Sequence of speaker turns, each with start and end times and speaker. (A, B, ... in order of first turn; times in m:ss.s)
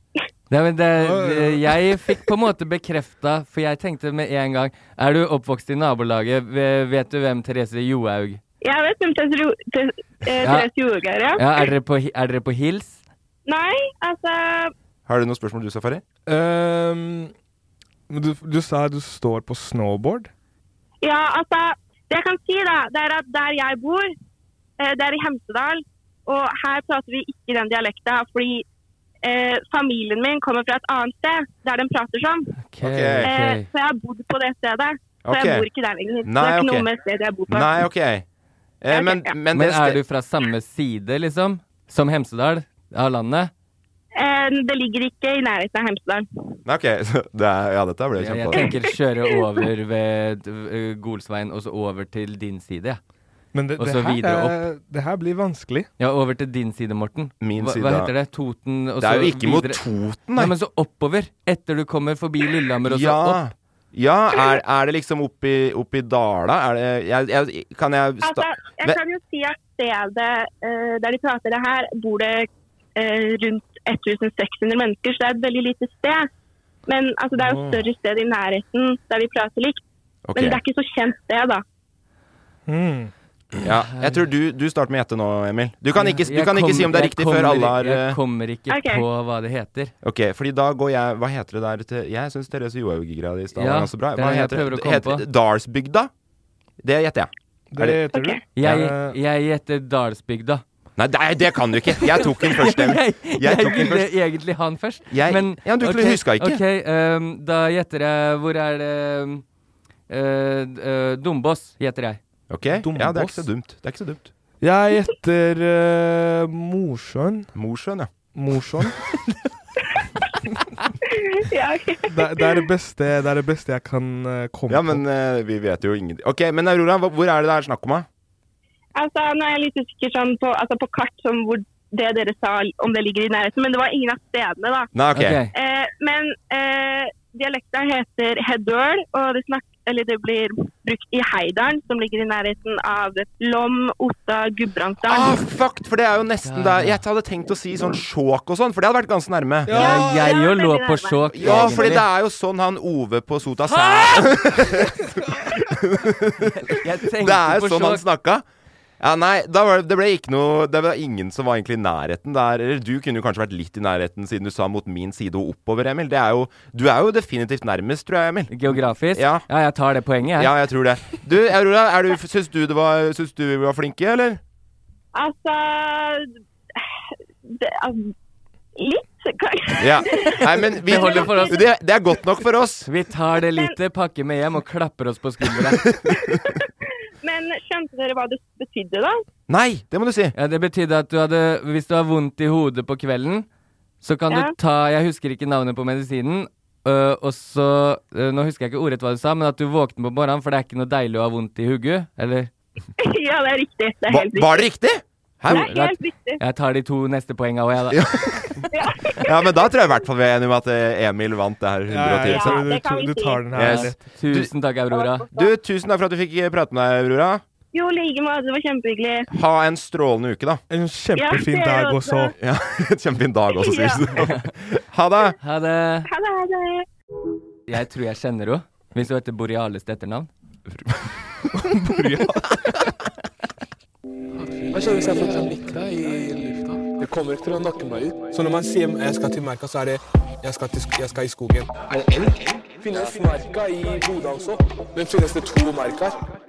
0:00.5-0:08.4 A
0:01.0-0:01.9 B
0:08.6-0:11.7 C
0:10.4-0:10.7 A
0:11.4-0:13.0 A
0:13.5-0:14.7 C
0:15.1-0:16.0 D
0:16.3-0:17.3 B
0:18.1-0:20.3 B
0:21.0-0:24.1 C
0:24.8-0:28.6 C
0:29.2-0:32.4 C
0:32.7-0:33.7 A
0:32.8-0:33.3 D
0:33.2-0:37.8 C
0:35.2-0:35.6 D
0:36.2-0:36.9 D
0:37.5-0:38.2 D
0:38.8-0:40.0 D
0:38.9-0:39.3 C
0:39.5-0:43.5 A
0:44.2-0:46.6 C
0:46.6-0:48.7 D
0:48.2-0:53.0 A
0:48.5-0:49.4 C
0:53.5-0:55.9 B
0:53.8-0:54.6 A
0:56.0-0:59.8 A
0:57.4-0:58.1 D
0:59.0-1:00.5 D
1:00.4-1:03.4 A
1:02.8-1:09.0 D
1:08.2-1:16.3 C
1:16.9-1:19.8 C
1:17.4-1:17.8 D
1:20.3-1:20.6 D
1:20.3-1:21.6 C
1:22.7-1:23.1 B
1:23.6-1:28.2 D
1:23.9-1:24.3 A
1:25.9-1:29.9 A
1:28.7-1:29.0 C
1:30.0-1:36.1 D
1:33.5-1:35.2 A
1:36.8-1:38.0 D
1:37.7-1:39.2 B
1:38.1-1:38.4 C
1:38.6-1:40.6 A
1:41.0-1:44.1 D
1:42.0-1:49.4 A
1:45.1-1:46.6 D
1:50.1-1:52.2 A
1:52.5-1:54.3 D
1:52.8-1:53.4 B
1:54.6-1:57.5 B
1:57.5-1:58.1 D
1:58.3-1:59.0 B
2:01.3-2:02.7 C
2:02.1-2:05.0 B
2:04.7-2:08.1 D
2:09.0-2:14.9 C
2:14.9-2:15.4 D
2:15.1-2:15.5 A
2:15.5-2:25.4 C
2:25.0-2:29.8 D
2:26.4-2:27.0 A
2:29.6-2:30.3 B
2:29.7-2:32.1 A
2:29.7-2:31.9 C
2:31.3-2:38.4 D
2:33.6-2:34.4 A
2:36.6-2:38.0 A
2:39.0-2:49.4 D
2:48.5-2:50.5 A
2:50.4-2:54.4 D
2:55.2-2:56.9 C
2:57.4-2:58.1 C
2:58.8-3:01.6 C
2:59.8-3:02.9 D
3:00.8-3:01.6 A
3:02.8-3:05.9 A
3:05.7-3:06.4 D
3:06.1-3:06.7 C
3:07.2-3:09.2 C
3:09.5-3:10.3 D
3:10.3-3:13.5 A
3:14.0-3:22.5 A
3:23.0-3:24.7 C
3:24.1-3:25.7 D
3:25.5-3:26.4 C
3:25.5-3:28.0 A
3:27.9-3:28.6 D
3:28.7-3:29.6 C
3:29.2-3:32.6 D
3:31.9-3:34.0 B
3:32.2-3:33.4 C
3:33.5-3:34.5 D
3:33.6-3:35.2 A
3:34.9-3:35.5 C
3:35.3-3:37.4 D
3:37.7-3:39.3 C
3:39.3-3:40.6 D
3:40.7-3:42.3 B
3:41.2-3:42.3 C
3:42.4-3:45.4 D
3:43.5-3:44.1 C
3:44.2-3:44.5 A
3:45.4-3:46.1 A
3:46.1-3:46.8 C
3:47.7-3:50.3 A
3:50.7-3:51.1 D
3:51.5-3:52.6 B
3:54.7-4:06.3 E